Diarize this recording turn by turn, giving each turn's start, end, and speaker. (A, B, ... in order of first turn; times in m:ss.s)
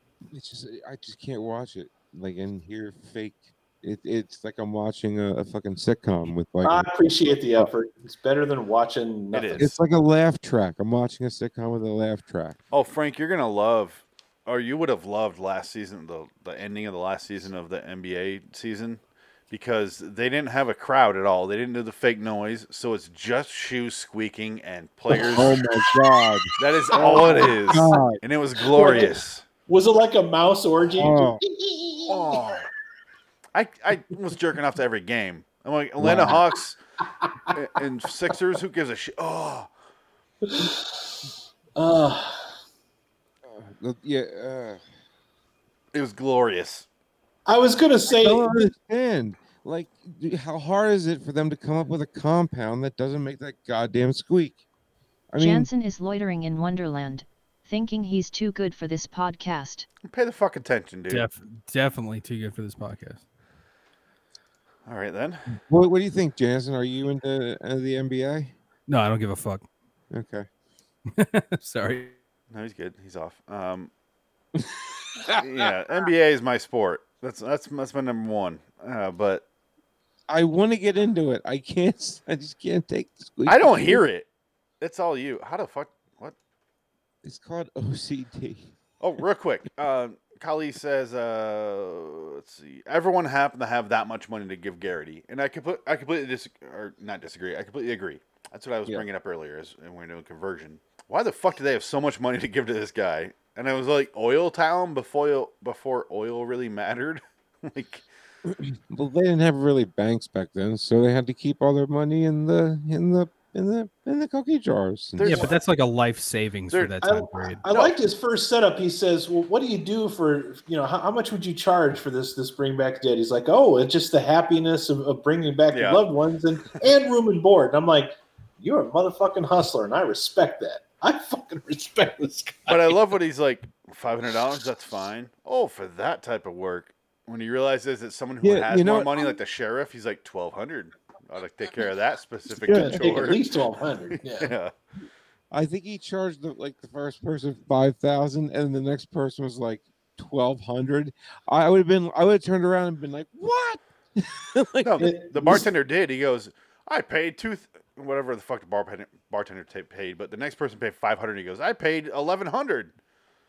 0:00.3-0:06.9 A
0:06.6-0:09.7 B
0:09.3-0:09.7 C
0:09.6-0:12.6 A
0:12.7-0:25.6 C
0:25.1-0:28.2 A
0:26.6-0:29.5 C
0:26.9-0:27.5 B
0:28.7-0:32.4 B
0:31.0-0:31.4 A
0:32.1-0:32.7 C
0:33.5-0:36.8 C
0:36.0-0:36.4 A
0:37.2-0:37.5 B
0:37.5-0:39.7 C
0:40.4-0:41.1 B
0:41.8-0:42.5 B
0:43.4-0:44.8 A
0:45.9-0:46.9 C
0:47.5-0:48.5 B
0:48.1-0:54.6 A
0:55.3-0:55.7 A
0:55.4-0:59.9 D
1:00.0-1:01.3 C
1:01.1-1:03.2 E
1:04.9-1:05.5 C
1:05.6-1:08.5 A
1:08.9-1:09.7 E
1:10.1-1:10.5 A
1:11.2-1:12.2 E
1:12.5-1:13.9 C
1:15.4-1:19.5 C
1:20.3-1:24.0 A
1:23.5-1:24.3 C
1:24.8-1:26.4 C
1:27.2-1:28.7 A
1:29.0-1:48.1 C
1:48.5-1:55.5 A
1:55.2-1:55.6 C
1:55.2-1:57.6 E
1:56.7-1:57.0 C
1:57.0-2:13.0 B
2:05.7-2:06.0 C
2:12.7-2:23.5 C
2:18.4-2:19.2 A
2:22.6-2:23.3 A
2:22.7-2:24.5 B
2:24.2-2:24.7 C
2:25.5-2:35.1 A
2:34.8-2:42.9 C
2:35.0-2:35.7 B